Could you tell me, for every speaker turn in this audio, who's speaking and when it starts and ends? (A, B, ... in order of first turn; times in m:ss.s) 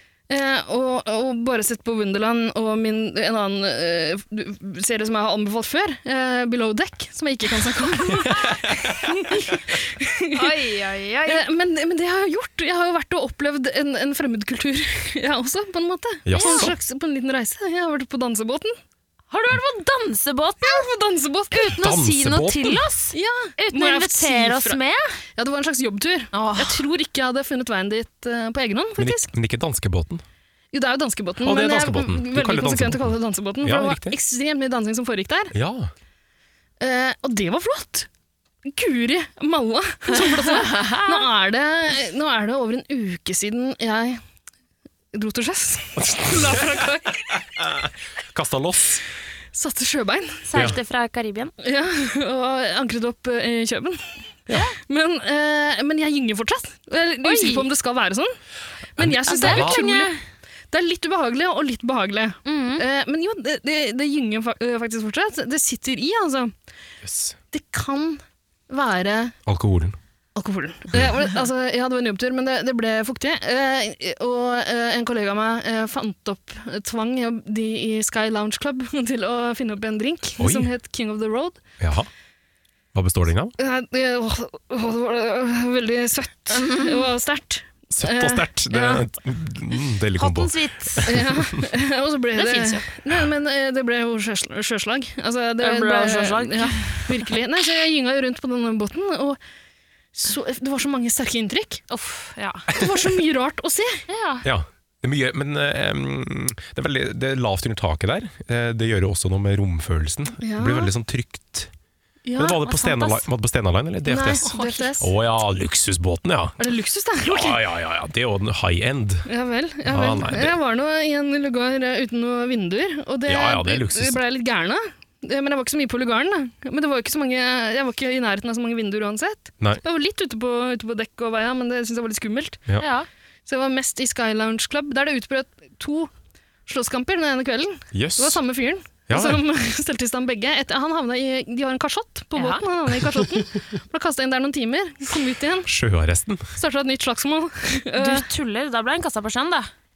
0:00.3-0:10.6 A
0:10.4-0:11.4 B
0:11.3-0:18.8 A
0:16.3-0:16.8 C
0:16.4-0:16.7 B
0:19.3-0:20.9 B
0:20.6-0:21.8 A
0:21.5-0:25.0 B
0:21.8-0:22.9 C
0:23.1-0:24.8 A
0:25.4-0:29.3 A
0:26.3-0:26.8 B
0:29.0-0:30.2 C
0:30.7-0:35.6 A
0:31.4-0:34.2 C
0:35.5-0:35.9 C
0:36.8-0:38.1 A
0:38.6-0:44.2 A
0:40.6-0:41.2 B
0:45.1-0:47.4 A
0:46.0-0:49.0 C
0:49.5-0:50.5 A
0:50.5-0:51.5 B
0:51.6-0:54.3 A
0:54.5-0:54.8 B
0:54.9-0:58.4 A
0:57.2-0:57.7 B
0:59.0-1:00.2 A
0:59.0-0:59.8 C
0:59.3-1:00.2 B
1:00.7-1:06.6 A
1:02.4-1:02.8 B
1:07.0-1:07.4 C
1:07.5-1:09.4 A
1:09.5-1:10.0 C
1:10.4-1:21.6 A
1:20.4-1:20.7 C
1:21.8-1:22.1 C
1:22.9-1:23.6 C
1:23.6-1:29.0 A
1:26.6-1:27.1 B
1:27.9-1:31.6 C
1:30.2-1:31.2 B
1:31.0-1:39.4 A
1:32.4-1:32.8 B
1:35.6-1:37.3 B
1:40.1-1:41.8 A
1:41.9-1:42.7 B
1:42.7-1:44.0 A
1:44.1-1:44.4 B
1:44.4-1:51.7 C
1:50.4-1:50.9 A
1:52.2-1:52.6 A
1:52.4-1:54.4 C
1:52.5-1:53.2 B
1:54.1-1:54.9 B
1:54.1-1:55.1 A
1:55.0-1:56.6 C
1:56.6-1:57.6 A
1:57.2-1:59.3 C
1:59.3-2:12.6 A
1:59.9-2:00.6 C
2:03.3-2:04.2 C
2:12.8-2:13.1 B
2:13.5-2:16.1 A
2:16.7-2:25.7 A
2:17.9-2:18.4 C
2:19.1-2:19.4 C
2:22.4-2:22.6 B
2:25.7-2:26.5 C
2:26.6-2:28.3 A
2:28.0-2:29.7 B